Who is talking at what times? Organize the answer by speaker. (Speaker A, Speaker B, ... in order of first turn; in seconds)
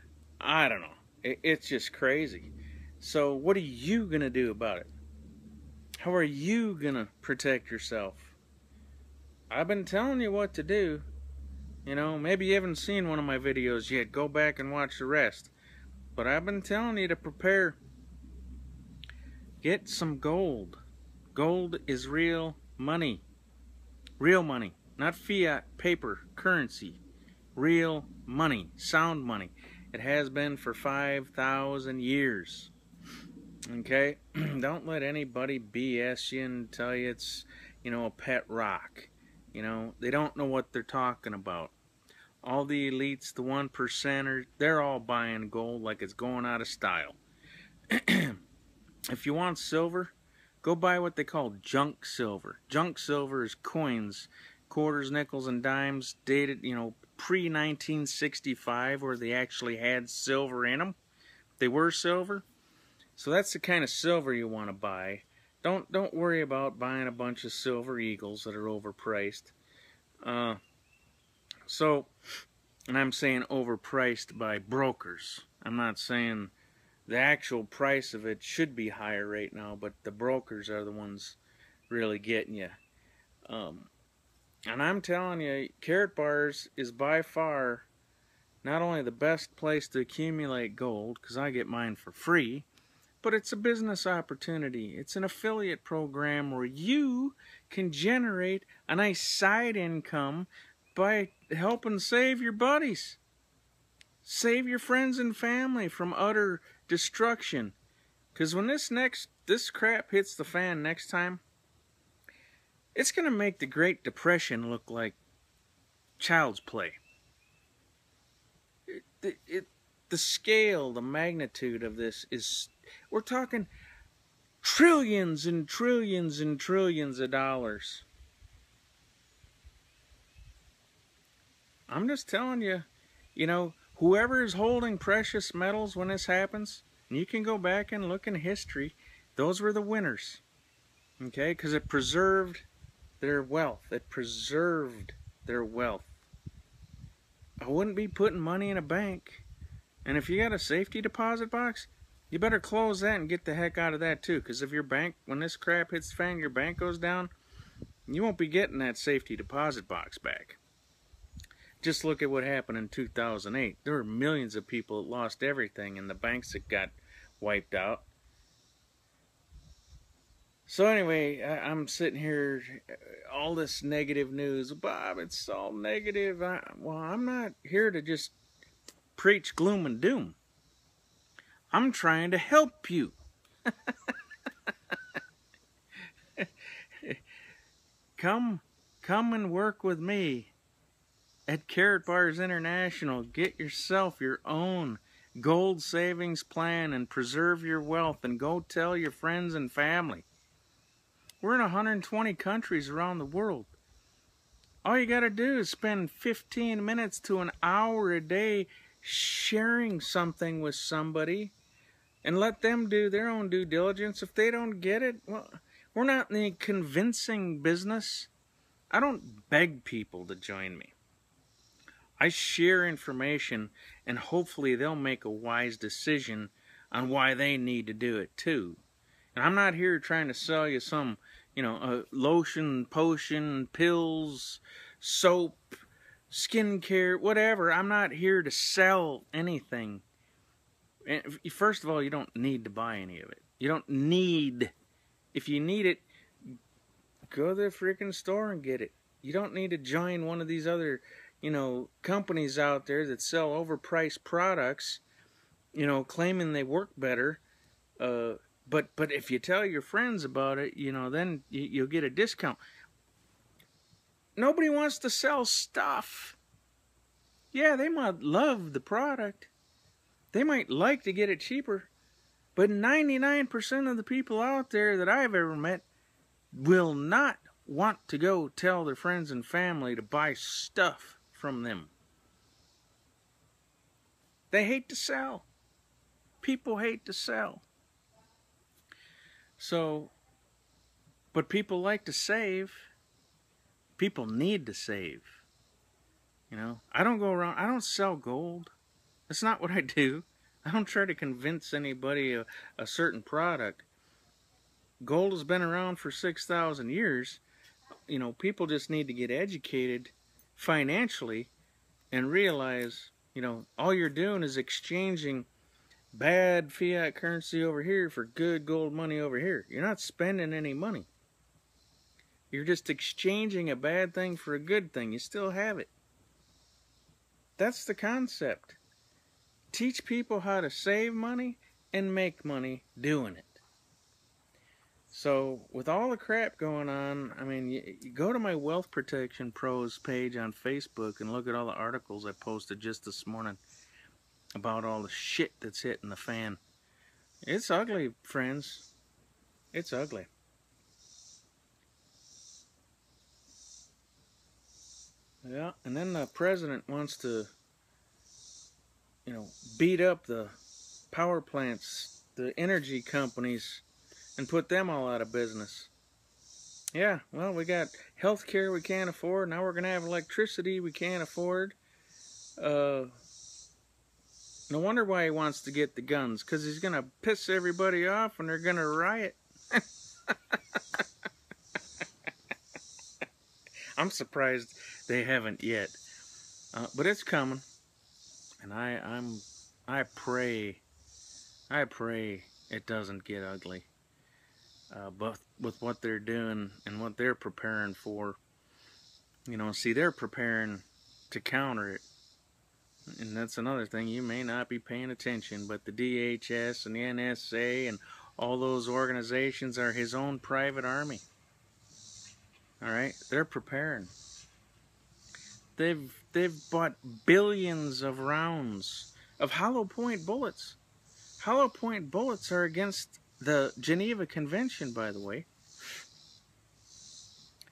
Speaker A: 0.4-4.9, 6.0-8.4, 9.5-11.1, 11.9-15.5, 16.1-17.8, 19.6-20.8, 21.3-23.2, 24.2-27.0, 27.6-32.7, 33.7-41.7, 42.4-47.2, 47.9-48.4, 49.1-61.0, 61.6-62.5, 63.2-69.5, 70.2-70.6, 71.7-72.1, 72.9-76.5, 77.1-82.8, 83.5-83.9, 84.7-87.9, 88.6-92.7, 93.2-103.2, 104.2-107.8, 108.3-111.4, 113.0-115.2, 116.2-117.0, 118.9-123.7, 124.6-128.1, 131.9-140.4, 141.2-142.7, 143.2-146.1, 147.6-149.4, 150.1-157.3, 158.1-160.6, 161.8-168.1, 170.7-178.3, 179.2-180.4, 181.7-183.2, 183.7-184.1, 186.4-187.2, 188.2-190.5, 191.5-200.3, 201.4-203.7, 204.8-211.5, 212.2-218.3, 218.9-220.9, 222.2-228.8, 229.3-235.7, 236.3-240.0, 241.1-244.7, 245.3-246.1, 247.3-255.0, 255.7-257.4, 258.0-262.6, 264.4-266.4, 267.5-269.5, 270.3-271.9, 272.6-275.9, 276.5-281.9, 284.5-285.5, 286.4-287.6, 289.6-290.1, 291.3-292.9, 294.0-295.4, 296.5-298.7, 299.3-303.9, 305.0-307.4, 308.1-311.5, 312.1-315.5, 316.1-321.1, 322.5-325.9, 327.6-328.8, 329.7-333.6, 335.1-343.6, 344.6-346.6, 347.4-348.9, 349.7-350.3, 355.4-357.5, 359.3-360.6, 361.1-363.8, 364.4-365.9, 366.9-371.8, 372.6-373.1, 374.7-380.8, 384.0-386.0, 386.7-387.6, 388.6-390.8, 391.7-393.9, 394.9-398.4, 399.5-402.0, 403.1-411.2, 412.8-414.1, 415.8-420.8, 421.4-425.5